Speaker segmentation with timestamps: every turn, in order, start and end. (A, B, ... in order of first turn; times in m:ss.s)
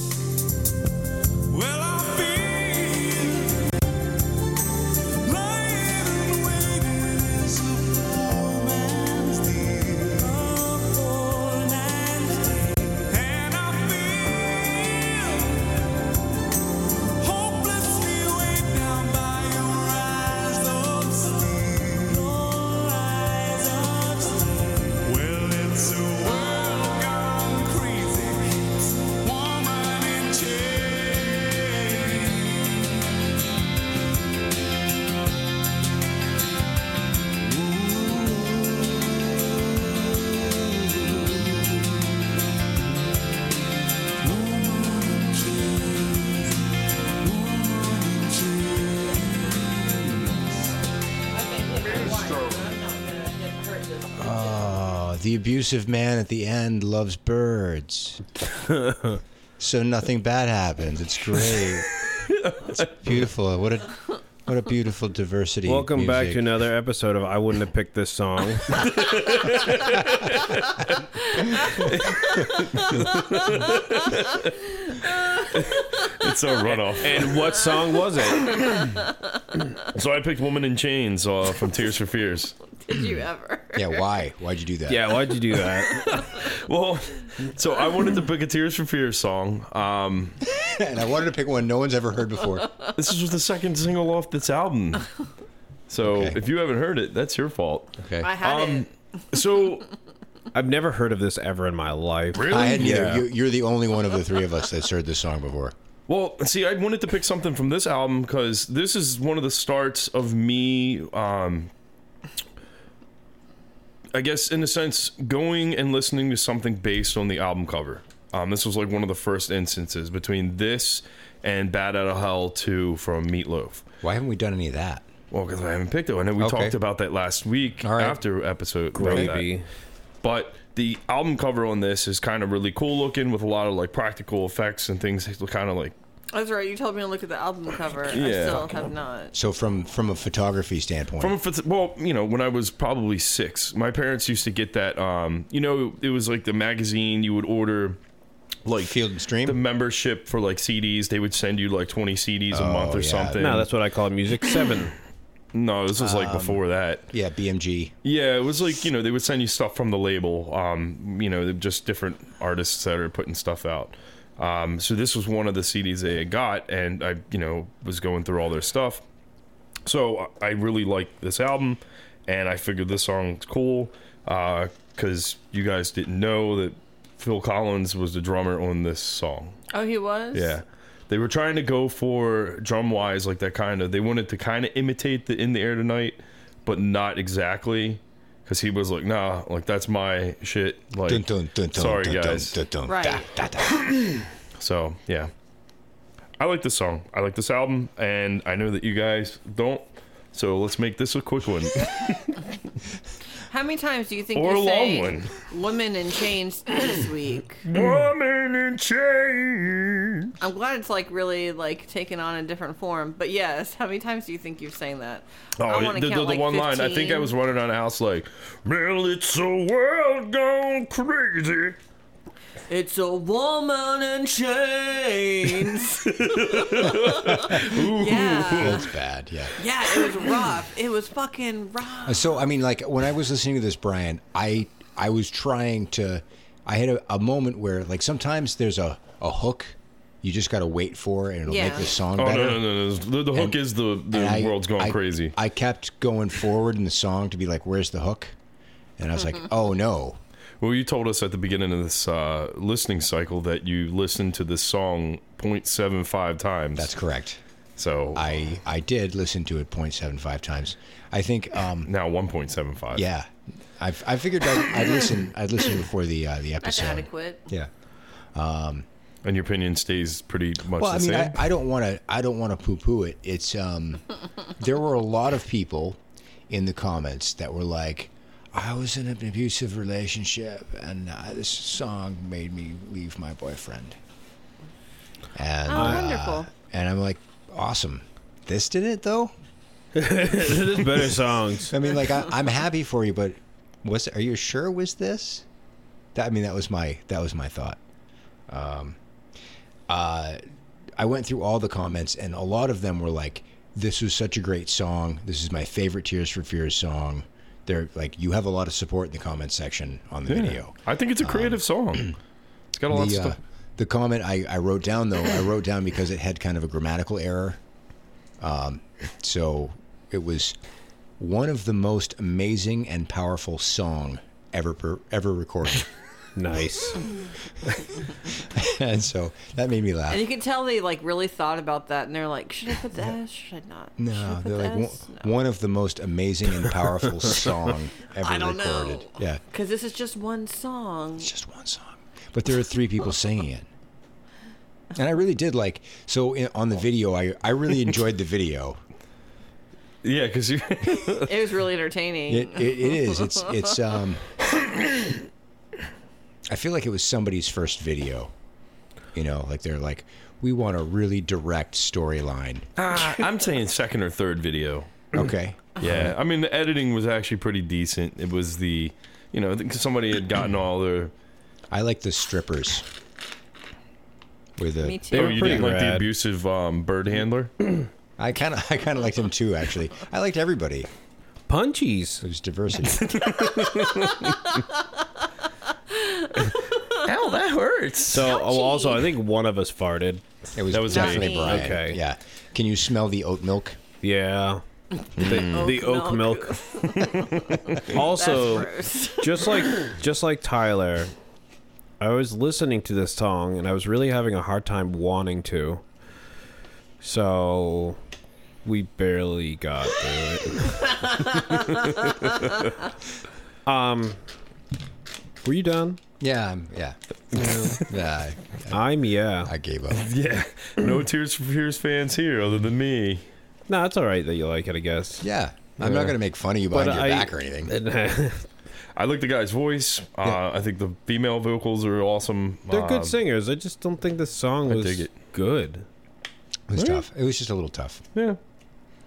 0:01.7-0:03.0 A
0:05.3-0:07.5 A
0:06.4-0:08.1 B
0:09.0-0:09.3 A
0:10.4-0:11.2 B
0:11.3-0:11.8 A
0:12.1-0:14.8 B
0:13.1-0:14.0 A
0:15.3-0:15.6 B
0:17.3-0:20.8 A
0:17.4-0:18.7 B
0:20.8-0:22.3 B
0:23.6-0:24.4 B
0:25.0-0:28.3 A
0:25.7-0:26.6 B
0:28.3-0:31.4 B
0:30.1-0:30.4 A
0:32.0-0:32.4 B
0:48.0-0:48.6 B
0:51.3-0:55.0 C
0:52.1-0:52.6 A
0:54.2-0:58.2 D
0:58.7-0:59.2 E
0:59.6-1:01.9 D
1:01.9-1:02.9 A
1:02.8-1:06.5 D
1:05.7-1:08.8 E
1:08.7-1:11.0 A
1:11.3-1:11.8 C
1:11.6-1:14.5 A
1:12.4-1:16.3 C
1:15.5-1:17.4 A
1:16.7-1:18.6 E
1:17.2-1:17.8 C
1:18.6-1:19.4 C
1:19.8-1:22.6 A
1:22.8-1:24.0 C
1:23.7-1:25.2 D
1:24.9-1:26.2 E
1:25.8-1:26.4 C
1:26.1-1:30.4 A
1:30.5-1:32.7 D
1:32.9-1:35.0 A
1:35.9-1:39.9 A
1:36.0-1:36.4 D
1:38.0-1:38.4 D
1:38.2-1:38.9 C
1:40.5-1:43.2 E
1:42.3-1:43.2 A
1:42.5-1:45.7 D
1:46.1-1:51.7 A
1:54.1-2:03.8 A
2:04.0-2:05.0 D
2:05.3-2:09.5 A
2:06.4-2:06.8 D
2:07.8-2:08.2 D
2:08.9-2:09.7 E
2:09.0-2:09.4 D
2:10.2-2:15.9 A
2:16.3-2:19.3 C
2:18.0-2:18.8 A
2:19.3-2:21.4 D
2:21.2-2:28.0 A
2:28.6-2:33.7 A
2:28.7-2:29.6 D
2:32.5-2:33.6 D
2:33.3-2:34.9 E
2:35.5-2:37.1 A
2:35.9-2:37.9 D
2:38.0-2:49.0 A
2:49.8-2:59.6 A
2:59.7-3:00.6 C
3:00.3-3:12.6 A
3:11.0-3:13.9 D
3:12.9-3:13.2 C
3:13.6-3:15.3 A
3:16.4-3:22.4 A
3:23.5-3:27.6 C
3:24.3-3:25.4 A
3:27.6-3:30.3 A
3:30.4-3:37.3 C
3:35.6-3:41.8 A
3:42.7-3:48.9 C
3:45.4-3:48.9 A
3:48.5-3:49.6 D
3:49.6-3:52.4 C
3:52.0-4:02.6 D
4:01.5-4:02.0 C
4:02.1-4:05.4 A
4:03.3-4:08.3 D
4:09.0-4:10.2 D
4:10.6-4:16.9 A
4:16.7-4:17.4 D
4:17.8-4:18.2 A
4:18.1-4:21.9 D
4:21.8-4:23.0 A
4:22.9-4:27.7 D
4:26.6-4:27.4 C
4:28.3-4:28.8 D
4:29.2-4:31.4 A
4:30.8-4:36.0 D
4:36.5-4:44.0 D
4:45.3-4:49.3 D
4:45.7-4:46.5 C
4:45.7-4:46.1 E
4:49.9-4:51.8 E
4:51.7-4:55.4 D
4:56.1-4:57.8 D
4:58.5-4:59.0 D
4:59.9-5:00.4 D
5:01.0-5:12.1 D
5:10.3-5:12.1 A
5:12.7-5:13.4 A
5:12.9-5:17.6 D
5:18.4-5:20.5 D
5:21.2-5:25.9 D
5:26.4-5:27.0 E
5:27.6-5:30.2 D
5:30.1-5:35.3 C
5:34.0-5:39.4 D
5:38.2-5:41.3 C
5:41.2-5:43.7 D
5:44.9-5:48.8 D
5:50.0-5:51.4 A
5:51.2-5:53.6 C
5:52.3-5:54.3 D
5:56.5-5:58.3 D
5:59.1-6:02.6 D
6:02.8-6:05.0 A
6:05.1-6:06.1 D
6:05.8-6:11.1 A
6:11.7-6:12.8 D
6:14.6-6:15.4 D
6:14.8-6:15.6 C
6:15.1-6:16.1 E
6:15.1-6:17.5 A
6:18.2-6:20.9 D
6:21.5-6:22.2 E
6:22.2-6:23.2 D
6:22.9-6:24.6 A
6:23.8-6:24.6 C
6:25.9-6:26.8 C
6:26.9-6:28.4 A
6:28.1-6:30.3 E
6:28.3-6:29.1 C
6:30.5-6:33.8 D
6:30.7-6:31.4 A
6:30.9-6:31.6 C
6:31.3-6:32.0 E
6:34.0-6:34.6 E
6:35.2-6:35.8 A
6:35.2-6:36.7 E
6:35.2-6:39.8 C
6:37.8-6:41.1 E
6:42.0-6:45.8 E
6:47.0-6:48.0 E
6:48.6-6:51.4 E
6:50.8-6:52.6 C
6:53.6-6:54.2 E
6:55.4-6:56.0 E
6:56.2-6:57.0 D
6:57.3-6:57.8 E
6:57.8-6:58.8 D
6:58.7-6:59.5 E
6:59.4-7:00.0 D
6:59.9-7:03.3 A
7:03.7-7:05.2 E
7:05.2-7:07.7 D
7:05.8-7:06.2 E
7:06.7-7:08.5 E
7:09.0-7:13.2 A
7:12.7-7:15.8 E
7:14.7-7:15.1 A
7:16.7-7:18.0 D
7:16.7-7:17.0 A